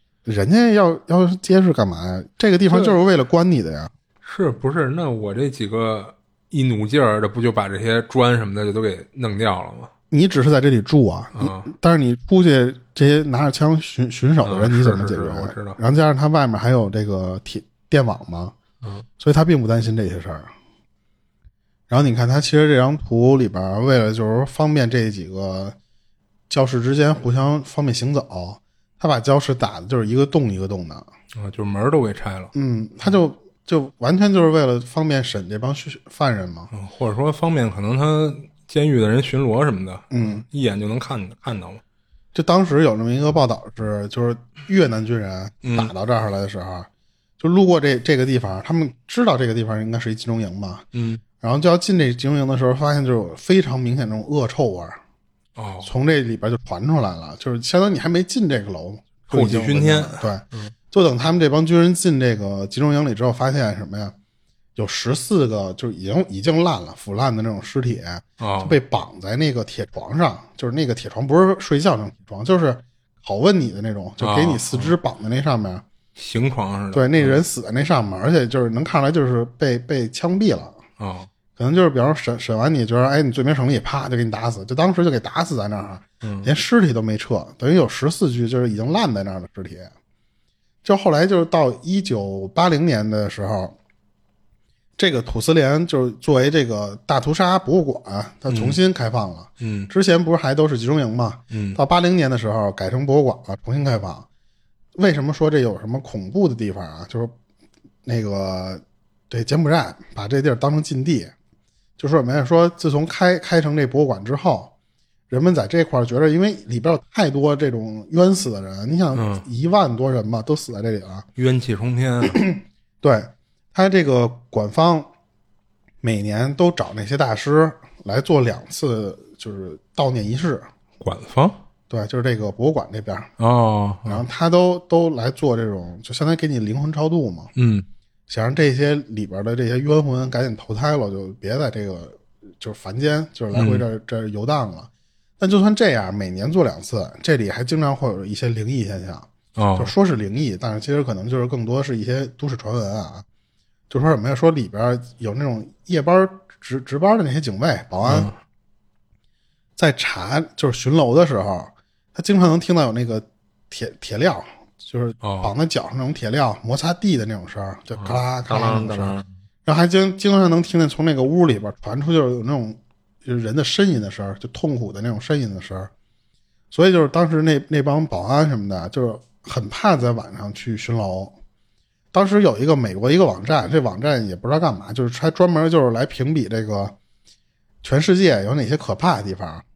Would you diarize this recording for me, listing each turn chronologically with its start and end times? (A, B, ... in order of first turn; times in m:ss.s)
0:00.3-0:03.9 A
0:02.7-0:03.0 B
0:04.2-0:09.9 B
0:10.1-0:18.6 A
0:11.4-0:11.7 B
0:14.4-0:15.8 B
0:19.2-0:20.5 A
0:21.9-0:25.8 A
0:26.5-0:31.1 A
0:31.3-0:32.5 B
0:32.5-0:36.7 A
0:36.7-0:41.8 B
0:40.1-0:40.4 A
0:42.3-0:46.9 A
0:45.6-0:45.9 B
0:47.4-0:50.9 A
0:50.9-0:51.2 B
0:51.4-0:55.0 A
0:55.6-0:55.9 B
0:55.8-1:04.1 A
0:59.3-1:00.7 B
1:04.8-1:15.8 A
1:08.4-1:08.8 B
1:14.2-1:15.0 B
1:16.2-1:17.4 B
1:16.9-1:20.8 A
1:21.0-1:21.3 B
1:21.6-1:29.9 A
1:26.2-1:26.5 B
1:30.8-1:33.8 A
1:35.0-1:44.3 A
1:38.5-1:38.8 B
1:39.6-1:39.9 B
1:41.5-1:41.8 B
1:45.0-1:47.3 A
1:48.0-1:51.3 A
1:52.0-1:54.7 A
1:55.3-2:01.3 A
1:59.1-1:59.5 B
2:01.4-2:02.4 B
2:02.3-2:05.1 A
2:06.0-2:10.7 A
2:11.0-2:11.6 B
2:11.9-2:13.3 A
2:13.4-2:14.2 B
2:14.0-2:17.5 A
2:17.6-2:17.9 B
2:18.3-2:33.2 A
2:23.5-2:23.8 B
2:29.6-2:29.9 B
2:33.9-2:38.3 A
2:38.1-2:38.4 B
2:39.8-2:55.9 A
2:45.2-2:45.5 B
2:48.0-2:49.3 B
2:56.7-3:01.3 A
3:02.1-3:07.0 A
3:07.8-3:09.6 A